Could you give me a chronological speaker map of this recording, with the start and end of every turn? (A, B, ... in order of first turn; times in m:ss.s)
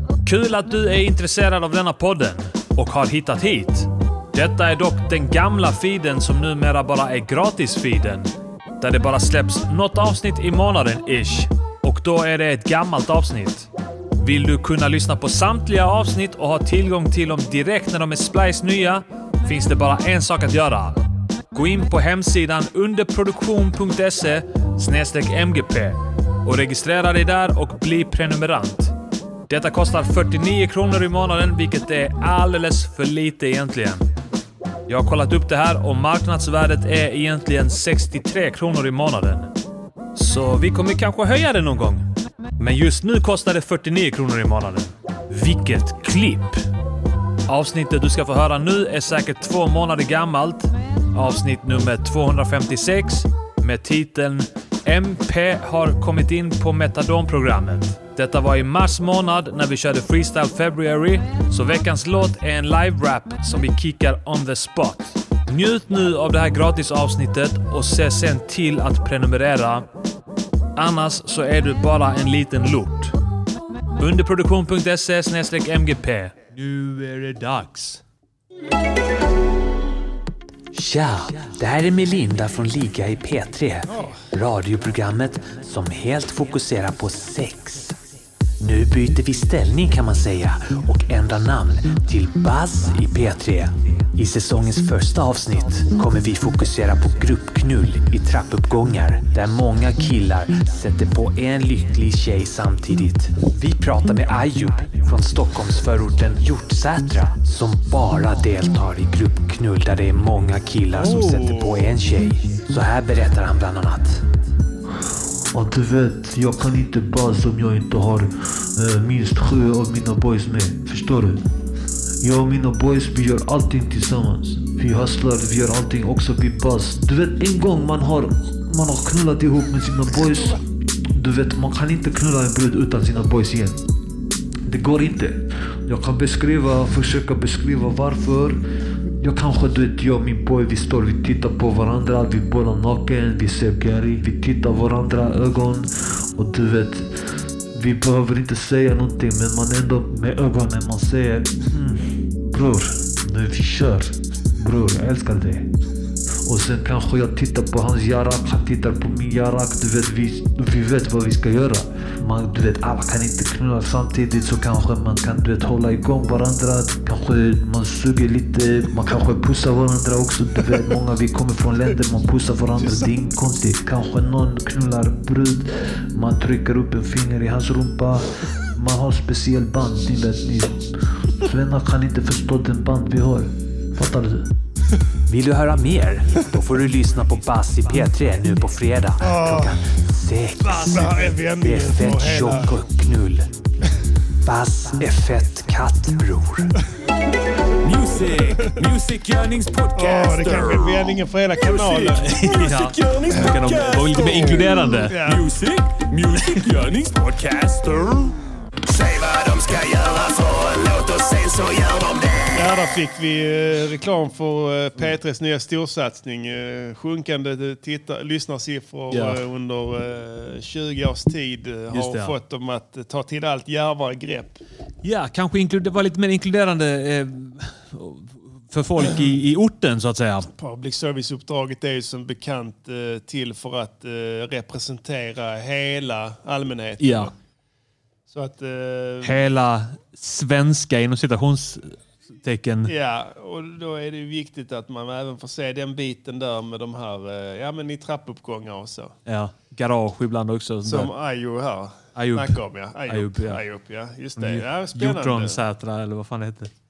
0:00.2-0:29.0 A
0:29.5-0:34.0 A
0:34.9-0:39.5 A
0:40.2-0:42.1 A
0:42.6-0:46.7 A
0:47.5-1:09.9 A
1:10.8-1:13.2 A
1:14.0-1:18.0 A
1:20.7-1:28.0 B
1:23.9-1:24.2 C
1:28.6-1:54.2 B
1:50.9-1:51.9 C
1:55.1-2:01.4 D
2:02.2-2:13.8 D
2:14.6-2:18.6 D
2:19.2-2:35.7 D
2:36.4-3:04.5 D
2:52.8-2:53.1 C
3:05.3-3:13.5 B
3:09.2-3:09.8 C
3:10.6-3:12.7 C
3:14.4-3:16.7 B
3:17.8-3:27.1 A
3:19.9-3:22.4 C
3:22.7-3:24.8 E
3:24.2-3:25.4 C
3:26.2-3:28.3 E
3:28.9-3:32.6 E
3:32.5-3:44.6 C
3:39.1-3:39.4 A
3:41.9-3:42.4 A
3:45.0-3:50.5 A
3:50.6-3:57.4 C
3:57.0-3:57.3 A
3:58.3-3:59.4 C
3:59.2-4:02.9 A
4:02.9-4:09.1 C
4:09.3-4:11.1 A
4:10.8-4:15.6 C
4:12.2-4:13.6 A
4:14.4-4:16.7 A